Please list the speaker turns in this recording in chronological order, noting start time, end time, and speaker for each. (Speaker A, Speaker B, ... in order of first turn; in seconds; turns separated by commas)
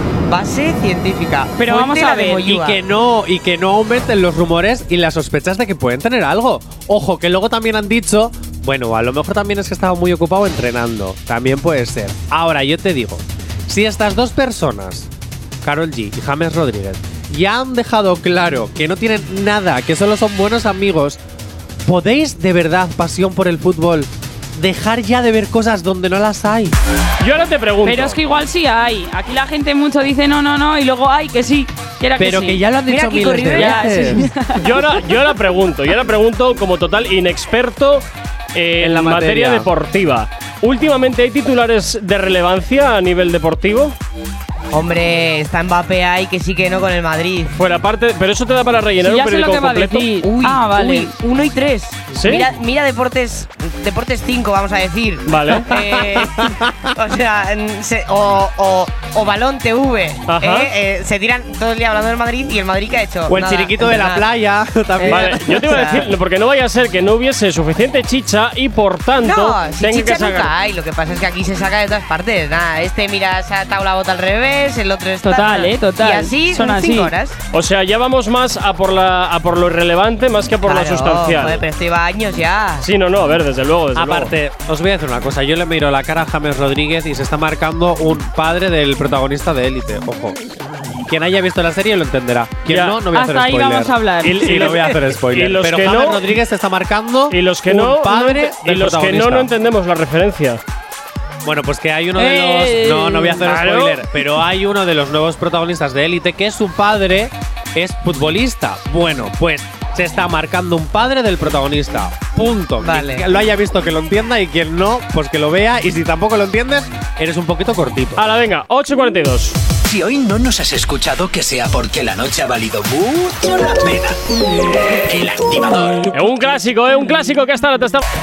Speaker A: 0.3-2.8, Speaker B: 1.6-2.6, Speaker C: 2.5-15.1, Speaker C: 15.6-21.2, Speaker C: 21.9-26.8, Speaker D: 27.2-28.2, Speaker B: 27.9-32.6, Speaker C: 32.2-34.3, Speaker A: 32.9-34.3, Speaker B: 33.5-34.6, Speaker D: 34.6-44.0, Speaker C: 38.8-39.7, Speaker A: 44.7-47.6, Speaker D: 47.6-50.1, Speaker B: 49.0-51.1, Speaker A: 50.2-64.3, Speaker D: 52.1-52.5, Speaker D: 55.3-55.7, Speaker C: 55.7-56.9, Speaker D: 60.3-60.7, Speaker C: 63.3-66.0, Speaker A: 65.0-66.1, Speaker D: 65.0-70.5, Speaker A: 69.2-77.4, Speaker B: 75.2-77.1, Speaker D: 77.5-81.6, Speaker A: 80.7-82.9, Speaker D: 82.8-84.3, Speaker C: 83.9-90.4, Speaker C: 91.0-99.5, Speaker D: 92.7-93.0, Speaker B: 93.1-94.9, Speaker D: 94.2-96.3, Speaker D: 97.3-100.6, Speaker C: 101.4-118.3, Speaker B: 102.2-103.5, Speaker D: 103.4-104.0, Speaker A: 112.8-113.3, Speaker D: 118.2-119.6, Speaker E: 119.8-126.1, Speaker D: 126.1-128.0